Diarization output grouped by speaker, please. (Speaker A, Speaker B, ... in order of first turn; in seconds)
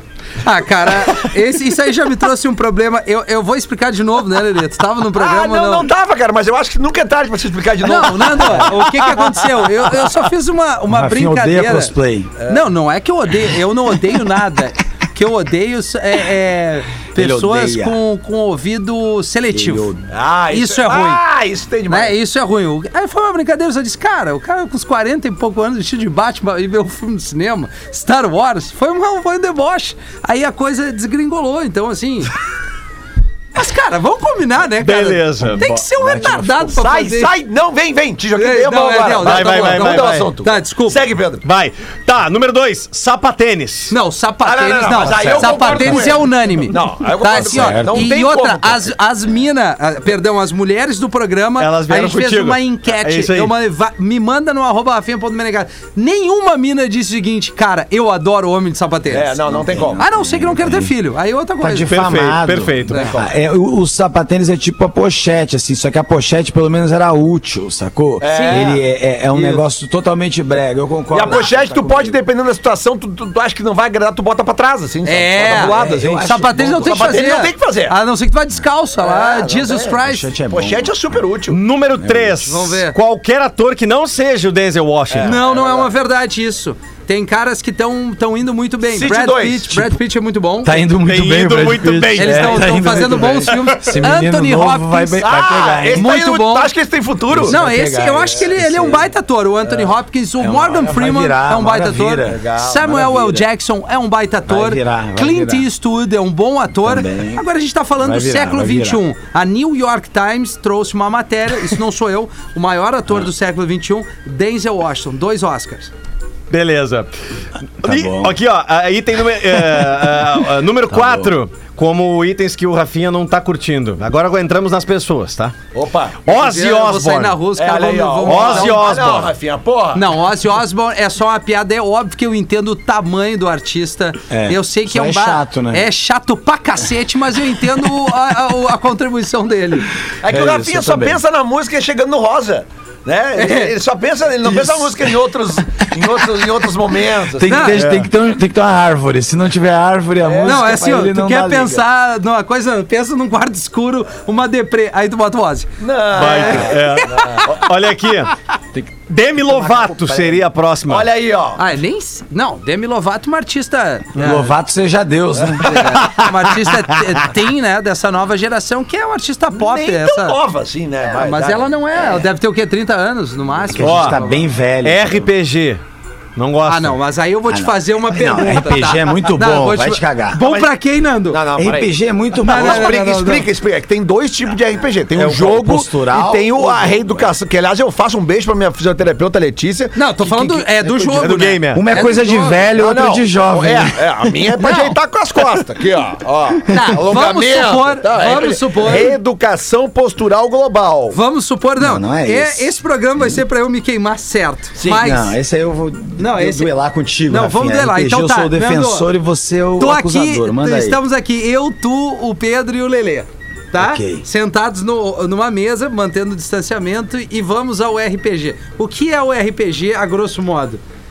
Speaker A: 0.4-5.9, 7.8-11.9, 12.4-21.2, 21.9-32.3, 33.5-37.3, 38.3-41.0, 43.9-59.4, 60.0-62.0, 62.9-63.1, 68.2-68.8, 69.3-69.6, 75.0-80.3, 82.5-83.0, 85.2-90.8, 92.2-95.3, 95.9-96.7, 97.4-115.9, 126.3-128.9, 129.9-139.9, 143.3-143.7, 147.4-147.8, 150.4-157.5, 161.6-164.5, 165.6-170.4, 171.2-174.5, 176.7-181.4, 182.4-183.4, 189.9-192.6, 194.6-194.9, 196.7-199.2, 201.1-205.3, 206.2-206.7, 207.3-209.1, 209.8-220.8
Speaker B: 5.1-8.8, 12.4-12.7, 20.1-22.1, 36.2-41.4, 44.4-48.9, 59.1-60.0, 62.9-63.3, 68.2-68.8, 71.1-78.0, 79.0-80.0, 80.5-81.6, 85.1-85.9, 88.9-89.9, 95.2-97.6, 98.2-99.0, 102.2-103.4, 125.7-126.2, 127.5-130.1, 140.2-147.7, 150.2-150.9, 155.8-157.7, 159.5-161.6, 169.5-171.7, 180.4-180.7, 181.3-190.7, 192.6-201.2, 204.8-205.1
Speaker C: 10.9-12.3, 17.1-18.0, 19.5-19.9, 45.3-46.1, 47.3-48.1, 59.5-60.9, 61.6-72.2, 75.4-77.2, 80.0-81.2, 82.0-82.5, 90.6-96.2, 97.3-99.0, 100.4-103.0, 104.5-105.7, 106.8-107.4, 108.0-109.0, 117.8-118.3, 120.9-121.3, 134.3-135.9, 140.2-141.2, 144.5-144.8, 147.3-151.8, 164.2-166.0, 173.7-175.3, 177.5-180.4, 181.5-183.2, 185.1-187.3, 191.7-194.4, 201.8-203.4, 204.9-211.0, 213.7-214.2
Speaker D: 34.8-36.2, 39.2-40.3, 41.4-43.9, 51.6-53.5, 61.9-63.1, 81.5-85.4, 91.0-93.8, 116.5-117.1, 117.8-125.5, 126.2-127.4, 128.2-129.3, 147.7-148.1, 156.1-158.3, 159.1-161.1, 173.8-174.2, 174.8-175.8, 176.3-177.0, 191.2-191.9